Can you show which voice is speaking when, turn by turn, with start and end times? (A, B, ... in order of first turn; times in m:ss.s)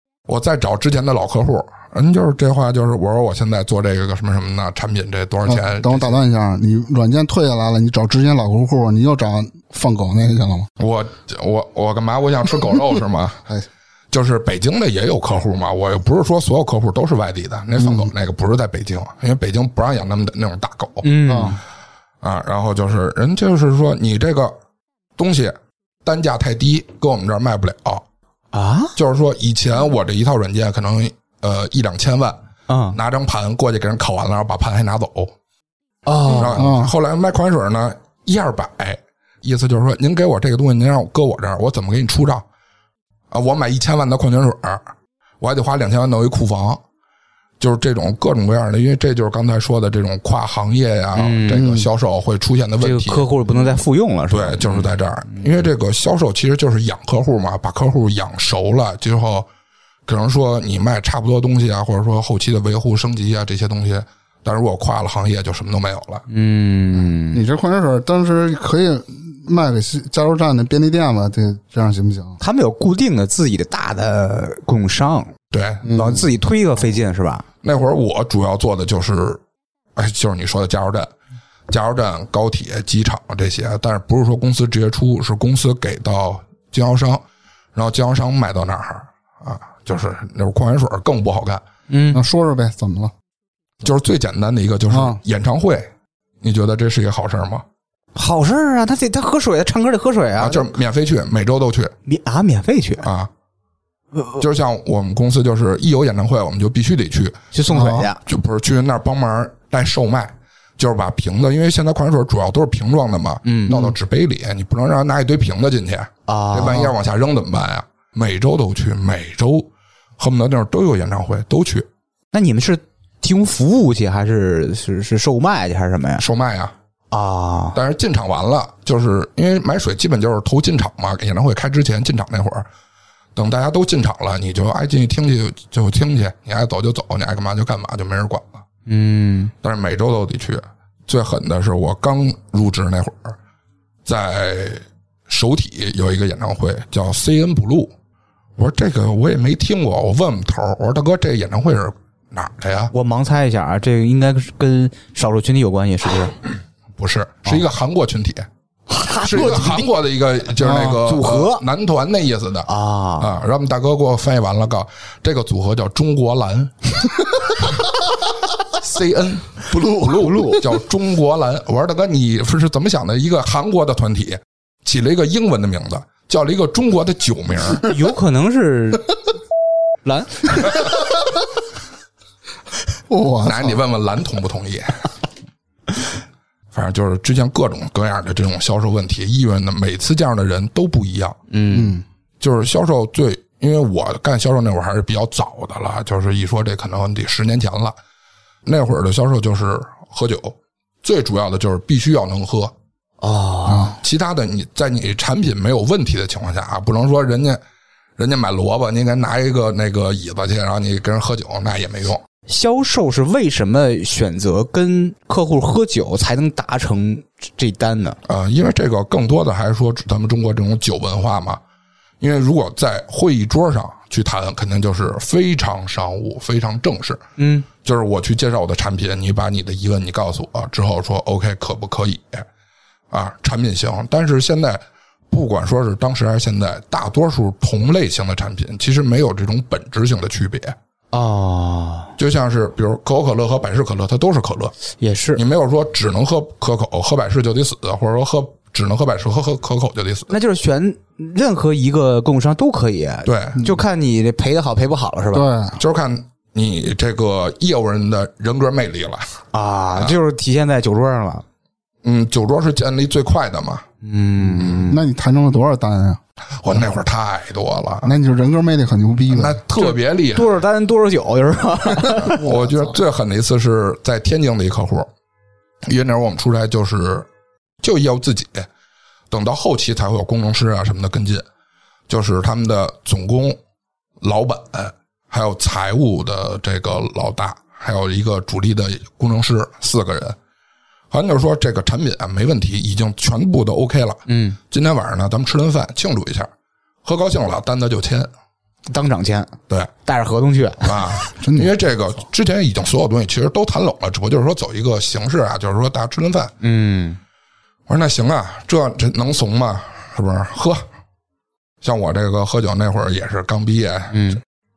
0:00.3-0:06.2 A
0:05.4-0:10.7 B
0:10.8-0:13.4 A
0:14.1-0:21.4 A
0:17.8-0:18.1 B
0:21.0-0:21.6 C
0:21.2-0:21.6 B
0:22.2-0:24.5 A
0:25.2-0:28.0 A
0:28.5-0:28.9 C
0:29.0-0:32.4 A
0:32.7-0:33.0 C
0:32.9-0:35.3 A
0:36.0-0:36.7 C
0:36.3-0:42.4 A
0:36.6-0:36.9 B
0:43.3-0:44.8 A
0:45.4-0:46.8 A
0:47.6-0:53.3 A
0:51.2-0:51.7 C
0:51.5-0:51.9 B
0:52.8-0:54.9 C
0:54.3-0:59.5 A
1:00.1-1:06.2 A
1:06.3-1:07.4 C
1:07.3-1:12.4 B
1:12.4-1:15.3 C
1:15.5-1:15.9 A
1:15.8-1:16.2 B
1:15.9-1:17.4 C
1:17.6-1:19.4 A
1:20.0-1:21.1 A
1:21.7-1:27.2 A
1:27.7-1:31.6 A
1:31.9-1:32.2 C
1:32.1-1:33.1 B
1:33.8-1:35.9 A
1:34.9-1:35.2 B
1:36.4-1:37.6 A
1:38.1-1:40.7 C
1:40.4-1:41.9 A
1:42.0-1:43.0 C
1:43.0-1:43.3 A
1:44.4-1:47.5 A
1:47.5-1:48.2 C
1:47.7-1:48.0 B
1:48.2-2:01.8 A
1:53.4-1:53.9 C
1:56.3-1:56.9 C
2:02.3-2:06.2 C
2:06.2-2:06.7 A
2:07.1-2:07.8 C
2:07.7-2:12.6 A
2:13.4-2:18.6 A
2:18.9-2:19.5 C
2:19.6-2:23.3 A
2:24.0-2:27.9 A
2:28.6-2:32.9 A
2:32.9-2:36.4 C
2:37.0-2:38.5 A
2:38.9-2:39.9 C
2:39.2-2:42.7 A
2:40.6-2:41.6 C
2:40.6-2:41.0 B
2:42.6-2:43.3 C
2:43.2-2:47.8 A
2:48.8-2:57.9 A
2:49.7-2:50.4 B
2:50.0-2:50.6 C
2:57.8-2:59.1 C
3:00.0-3:00.7 C
3:03.1-3:03.8 B
3:03.4-3:05.0 A
3:06.7-3:11.4 A
3:11.5-3:12.0 C
3:11.7-3:12.0 B
3:12.4-3:18.0 A
3:18.6-3:22.7 A
3:23.2-3:24.0 C
3:23.8-3:27.6 A
3:28.2-3:32.2 A
3:32.5-3:38.2 C
3:38.3-3:41.6 A
3:42.2-3:47.2 A
3:47.4-3:47.7 C
3:47.8-3:52.4 A
3:53.1-4:00.8 A
4:01.1-4:02.1 C
4:02.2-4:04.7 A
4:05.0-4:05.4 C
4:05.3-4:10.3 A
4:10.3-4:15.5 C
4:13.2-4:13.6 A
4:15.3-4:15.8 B
4:15.8-4:19.4 A
4:19.5-4:21.4 C
4:22.0-4:23.8 A
4:24.0-4:25.0 C
4:24.8-4:26.2 B
4:26.6-4:28.1 A
4:28.0-4:29.6 B
4:29.3-4:30.5 A
4:29.8-4:32.4 C
4:32.2-4:35.1 A
4:35.8-4:37.3 A
4:37.8-4:38.7 A
4:39.3-4:41.4 A
4:42.1-4:43.6 A
4:44.2-4:50.4 A
4:51.1-4:56.5 A
4:54.3-4:54.6 C
4:57.0-4:58.3 A
4:58.9-5:01.2 C
5:00.8-5:06.5 A
5:01.4-5:01.7 B
5:06.6-5:07.2 C
5:07.9-5:10.8 A
5:11.8-5:14.3 A
5:14.1-5:14.4 C